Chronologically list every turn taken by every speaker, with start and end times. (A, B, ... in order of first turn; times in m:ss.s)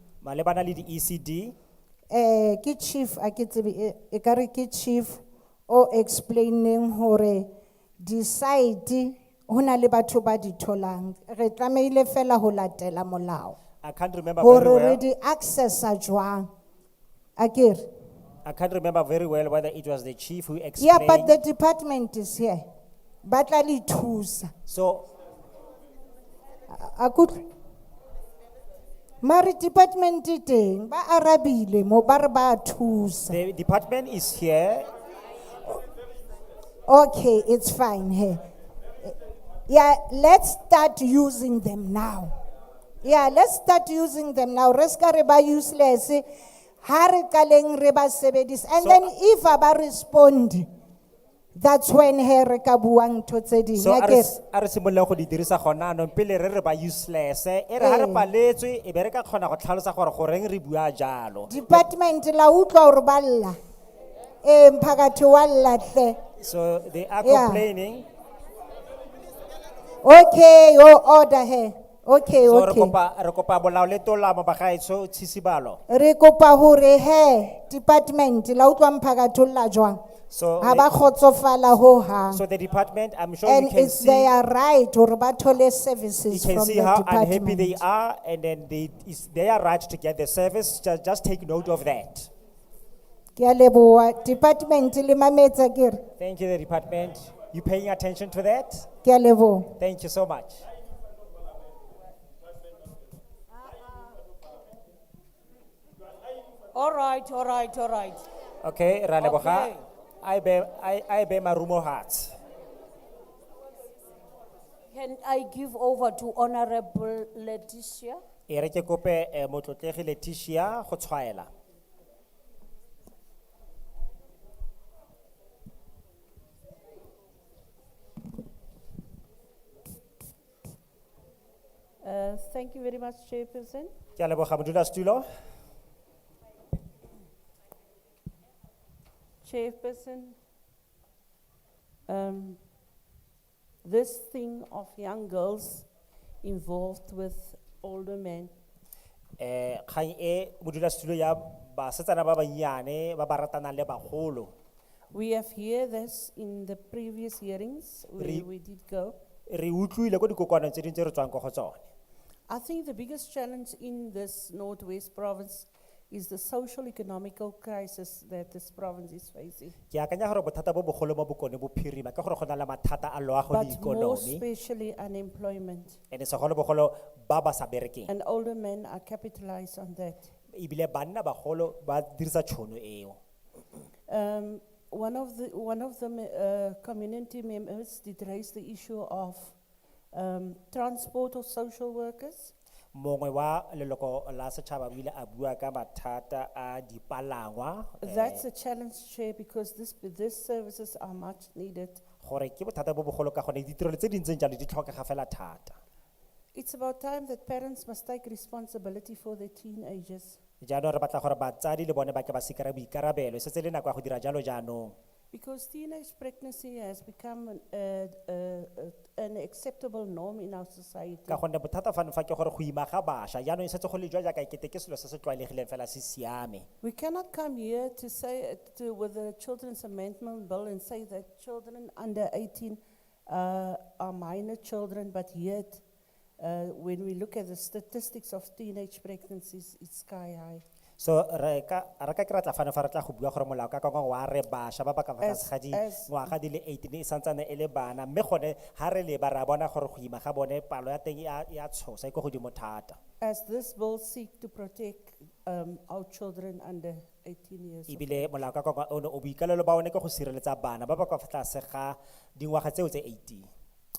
0:00.2-0:01.5 A
0:02.1-0:07.5 B
0:08.0-0:13.6 B
0:13.8-0:15.0 A
0:14.4-0:16.5 B
0:17.4-0:17.8 B
0:18.4-0:21.4 A
0:20.8-0:22.7 B
0:23.2-0:24.5 B
0:24.7-0:25.1 A
0:26.7-0:27.4 B
0:29.2-0:33.4 B
0:33.3-0:34.9 A
0:36.8-0:38.4 B
0:39.7-0:42.3 B
0:43.0-0:46.2 B
0:46.8-0:50.7 B
0:48.8-0:49.1 A
0:51.5-0:54.3 B
0:53.8-1:01.8 A
0:57.8-0:58.3 B
1:01.5-1:03.6 B
1:04.4-1:06.2 B
1:06.4-1:08.0 A
1:07.2-1:07.6 B
1:10.0-1:12.9 B
1:12.4-1:15.8 A
1:15.9-1:20.0 B
1:20.3-1:20.9 A
1:20.6-1:22.4 B
1:22.3-1:24.3 A
1:23.4-1:27.8 B
1:26.3-1:32.3 A
1:33.4-1:36.0 B
1:36.2-1:38.9 A
1:39.0-1:39.7 B
1:39.8-1:40.6 A
1:46.7-1:48.2 C
1:48.6-1:52.3 A
1:49.2-1:49.8 C
1:54.9-1:58.2 C
1:58.5-2:01.5 A
2:12.0-2:13.9 D
2:14.2-2:15.2 A
2:19.4-2:20.4 D
2:22.1-2:22.6 D
2:23.8-2:25.9 D
2:26.4-2:28.5 D
2:29.4-2:34.5 A
2:35.1-2:39.2 D
2:38.2-2:38.5 A
2:39.5-2:41.9 A
2:42.5-2:49.8 D
2:49.9-2:54.4 A
2:53.5-2:56.0 D
2:56.1-2:58.1 A
2:58.1-3:00.3 D
3:00.5-3:03.2 A
3:04.1-3:09.6 D
3:10.1-3:12.5 D
3:12.9-3:18.4 A
3:18.0-3:22.0 D
3:22.2-3:25.8 A
3:26.5-3:30.4 D
3:30.6-3:34.9 A
3:35.3-3:41.4 D
3:41.3-3:46.7 A
3:46.8-3:55.8 D
3:56.4-4:00.6 D
4:01.0-4:13.0 A
4:05.2-4:06.1 D
4:13.2-4:18.3 D
4:17.9-4:23.5 A